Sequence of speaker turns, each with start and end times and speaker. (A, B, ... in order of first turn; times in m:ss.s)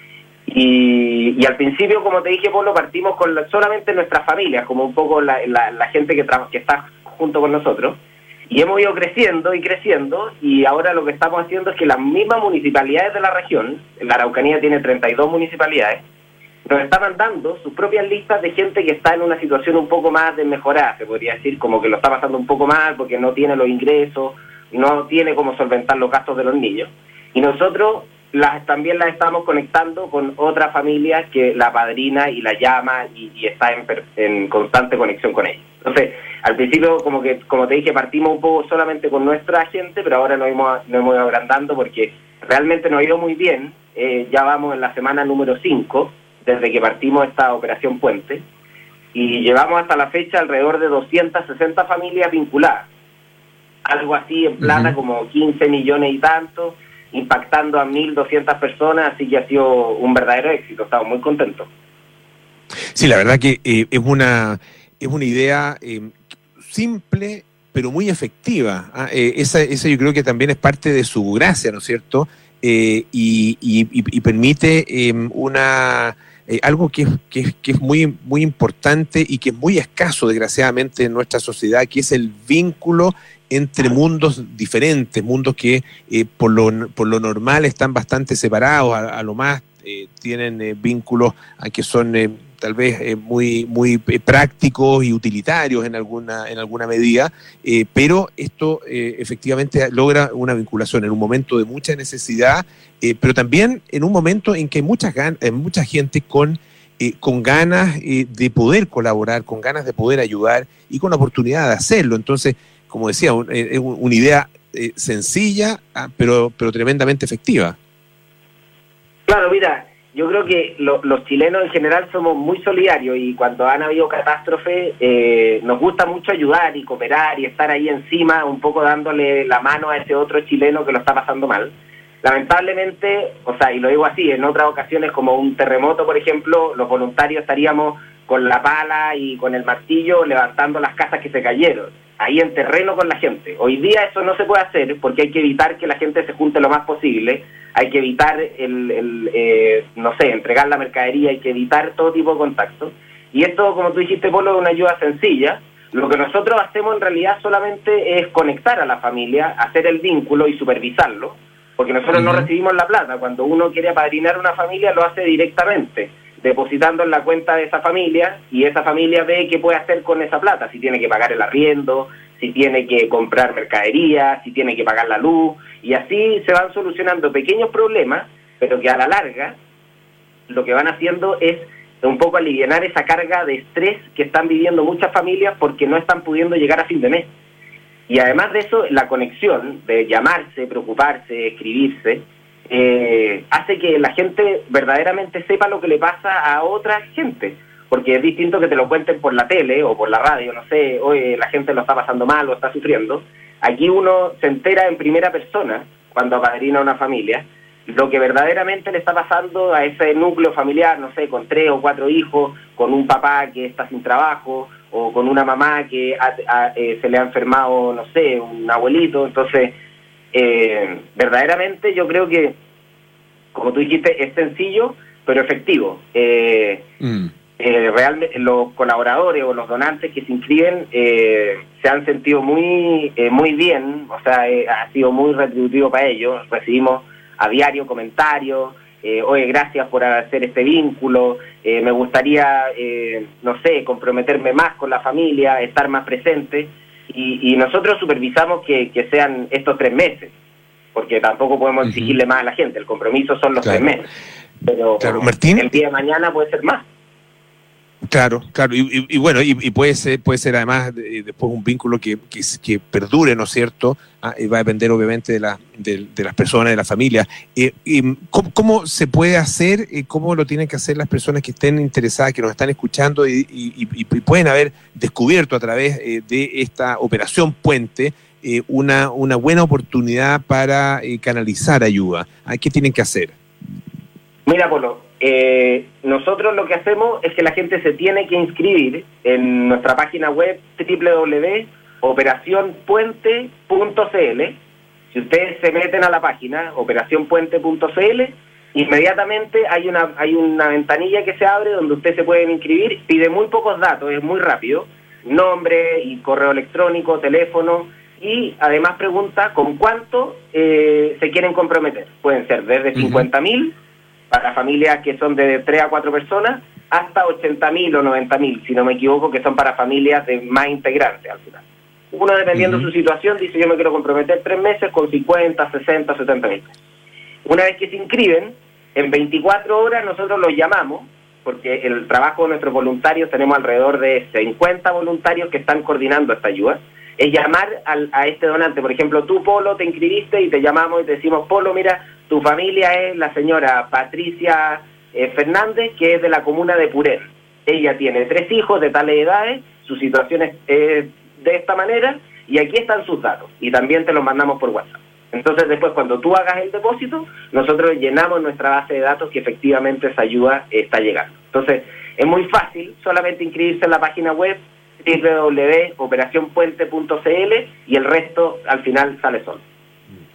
0:00.5-0:16.0 A
0:16.7-0:48.4 A
0:49.1-0:52.9 A
0:53.9-1:01.7 A
0:54.6-0:55.0 B
1:03.0-1:57.8 B
1:59.3-2:59.6 A
2:42.1-2:42.5 B
3:00.5-3:07.3 A
3:08.1-3:39.8 A
3:40.3-3:42.6 A
3:43.5-3:46.8 A
3:47.0-3:47.3 B
3:47.6-4:10.3 A
4:10.9-4:14.1 A
4:11.8-4:12.2 B
4:13.6-4:13.9 B
4:14.6-4:16.8 A
4:15.0-4:15.8 B
4:18.1-4:43.4 B
4:44.5-4:54.6 A
4:55.1-5:13.7 A
5:13.0-5:13.3 B
5:14.3-5:26.7 A
5:22.6-5:22.9 B
5:27.4-6:09.6 A